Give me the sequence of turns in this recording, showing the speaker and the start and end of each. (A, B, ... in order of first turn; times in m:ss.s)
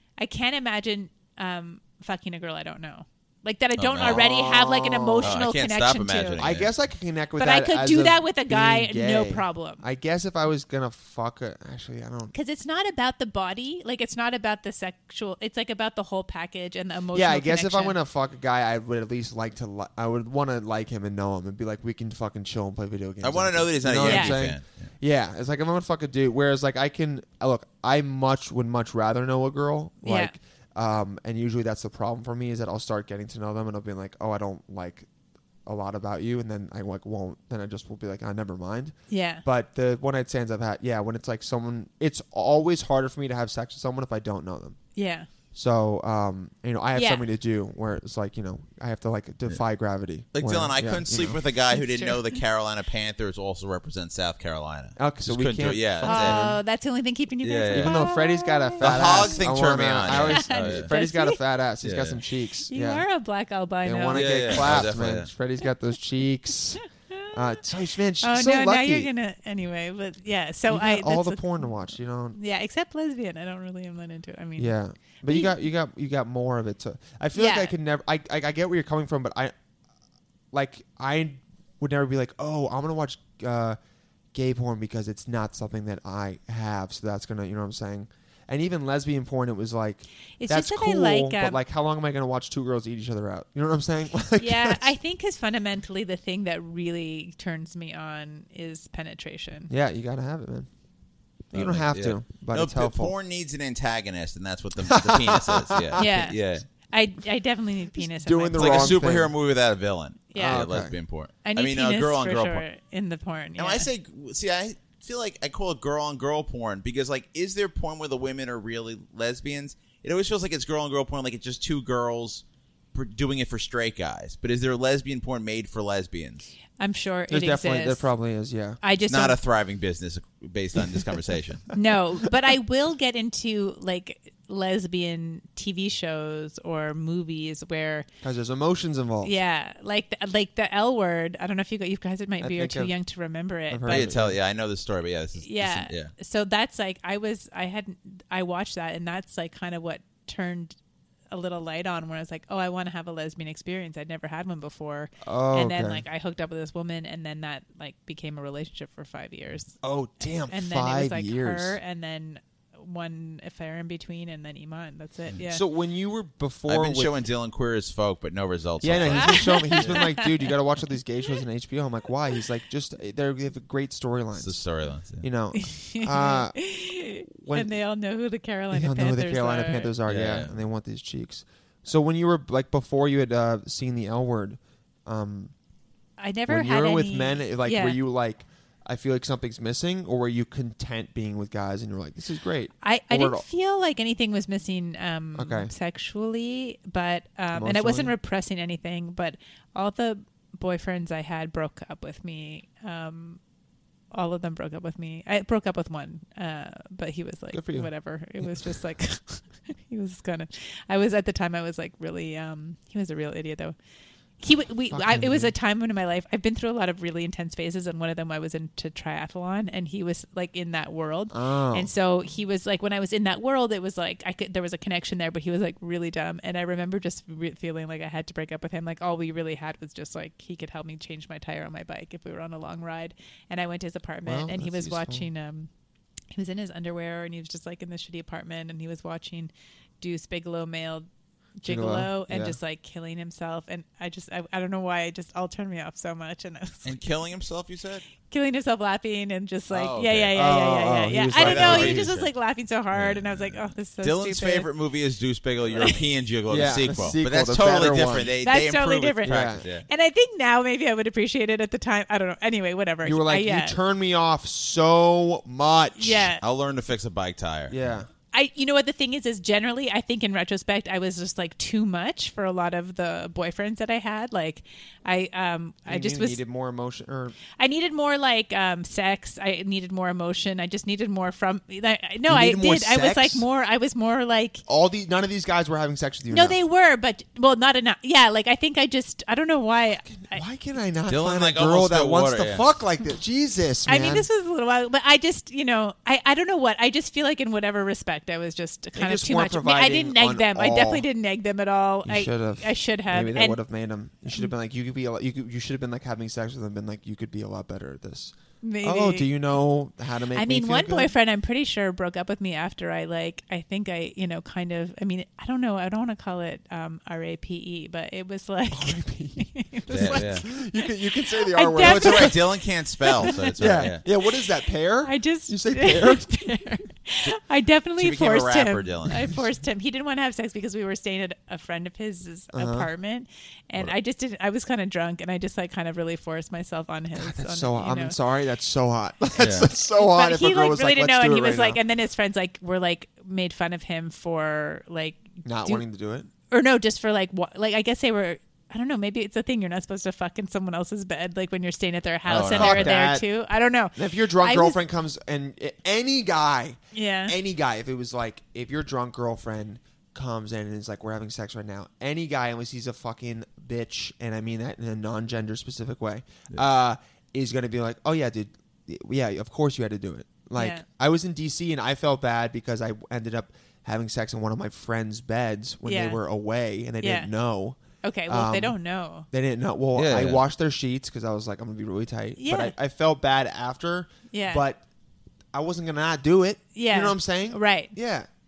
0:00.2-0:06.5 A
0:03.8-0:04.3 B
0:04.0-0:05.4 C
0:05.2-0:06.7 B
0:06.4-0:12.3 C
0:07.4-0:09.8 A
0:12.3-0:18.0 A
0:17.1-0:35.1 C
0:23.2-0:24.9 B
0:24.0-0:24.4 A
0:30.0-0:30.3 A
0:35.6-0:44.8 C
0:39.1-0:39.4 A
0:45.0-0:45.3 A
0:45.5-0:51.4 C
0:47.0-0:47.2 A
0:50.3-0:56.4 B
0:51.7-0:52.4 A
0:55.0-0:56.6 C
0:56.0-0:59.4 A
0:57.4-0:58.0 B
0:57.7-1:03.0 C
0:58.8-1:00.9 B
1:00.1-1:01.4 A
1:01.8-1:02.2 B
1:02.7-1:04.7 A
1:03.8-1:09.1 C
1:04.1-1:05.3 B
1:08.2-1:11.7 A
1:10.7-1:12.4 C
1:12.3-1:15.6 A
1:14.6-1:19.5 C
1:17.4-1:17.7 A
1:20.5-1:23.8 C
1:24.3-1:34.8 C
1:30.4-1:31.6 A
1:34.4-1:39.7 A
1:39.7-1:40.7 C
1:41.5-1:43.1 C
1:41.5-1:46.6 B
1:44.8-1:46.1 C
1:46.0-1:49.0 A
1:48.0-1:49.3 C
1:48.6-1:52.6 B
1:50.3-1:50.6 A
1:50.4-1:51.0 C
1:51.4-1:53.9 A
1:53.6-2:06.5 B
2:06.8-2:08.1 A
2:07.3-2:08.8 C
2:08.8-2:09.4 A
2:09.1-2:11.7 B
2:11.7-2:18.1 A
2:18.2-2:19.3 C
2:19.2-2:24.1 A
2:22.4-2:22.9 C
2:23.7-2:24.4 C
2:23.9-2:26.1 B
2:25.4-2:30.8 A
2:31.3-2:39.8 A
2:35.2-2:36.0 C
2:39.8-2:41.8 C
2:40.5-2:45.6 A
2:45.4-2:47.1 C
2:46.7-2:50.0 B
2:48.8-2:54.6 C
2:49.0-2:50.5 A
2:54.4-2:55.2 B
2:55.2-2:56.6 C
2:55.5-3:00.0 A
2:57.4-2:57.7 C
2:58.7-3:05.5 C
3:00.1-3:00.5 B
3:06.2-3:08.0 A
3:06.5-3:13.4 C
3:12.8-3:23.4 A
3:15.4-3:15.7 C
3:17.5-3:18.1 C
3:24.1-3:33.8 A
3:27.5-3:27.9 C
3:28.4-3:28.7 C
3:34.4-3:55.7 A
3:34.9-3:35.5 C
3:41.3-3:41.9 C
3:54.2-3:55.3 C
3:56.3-4:01.1 A
4:01.6-4:07.0 A
4:01.6-4:02.6 C
4:06.8-4:08.0 B
4:08.3-4:14.7 A
4:09.7-4:10.4 B
4:10.4-4:12.1 C
4:11.3-4:12.3 B
4:12.9-4:19.9 B
4:16.5-4:18.3 C
4:18.4-4:23.8 A
4:19.3-4:19.6 C
4:23.0-4:26.3 C
4:26.0-4:26.4 A
4:26.4-4:28.0 B
4:27.7-4:28.1 C
4:28.3-4:36.4 A
4:35.9-4:37.4 C
4:37.6-4:44.6 A
4:42.3-4:43.4 C
4:44.7-4:46.6 C
4:46.3-4:50.4 A
4:50.2-4:54.3 C
4:51.1-4:52.7 B
4:53.9-5:03.6 A
4:59.0-5:01.1 C
5:02.0-5:11.1 C
5:08.6-5:09.3 A
5:10.3-5:20.6 A
5:18.7-5:22.5 C
5:19.9-5:20.4 B
5:21.1-5:22.5 A
5:21.8-5:24.0 B
5:23.0-5:24.3 A
5:23.2-5:26.6 C
5:25.0-5:38.2 A
5:28.0-5:29.3 B
5:29.1-5:29.4 C
5:32.5-5:32.9 C
5:37.2-5:41.8 C
5:39.4-5:39.7 B
5:39.8-5:45.8 A
5:45.4-5:46.3 C
5:46.5-5:54.8 A
5:52.3-5:53.0 B
5:52.4-5:53.3 C
5:54.0-6:18.8 C
5:56.9-5:57.4 A
6:10.6-6:10.8 A
6:15.8-6:16.2 A
6:17.0-6:17.3 A
6:18.0-6:19.3 A
6:19.3-6:24.8 C
6:20.0-6:20.4 B
6:22.4-6:22.7 A
6:24.3-6:24.6 A
6:25.5-6:28.3 C
6:26.8-6:28.0 A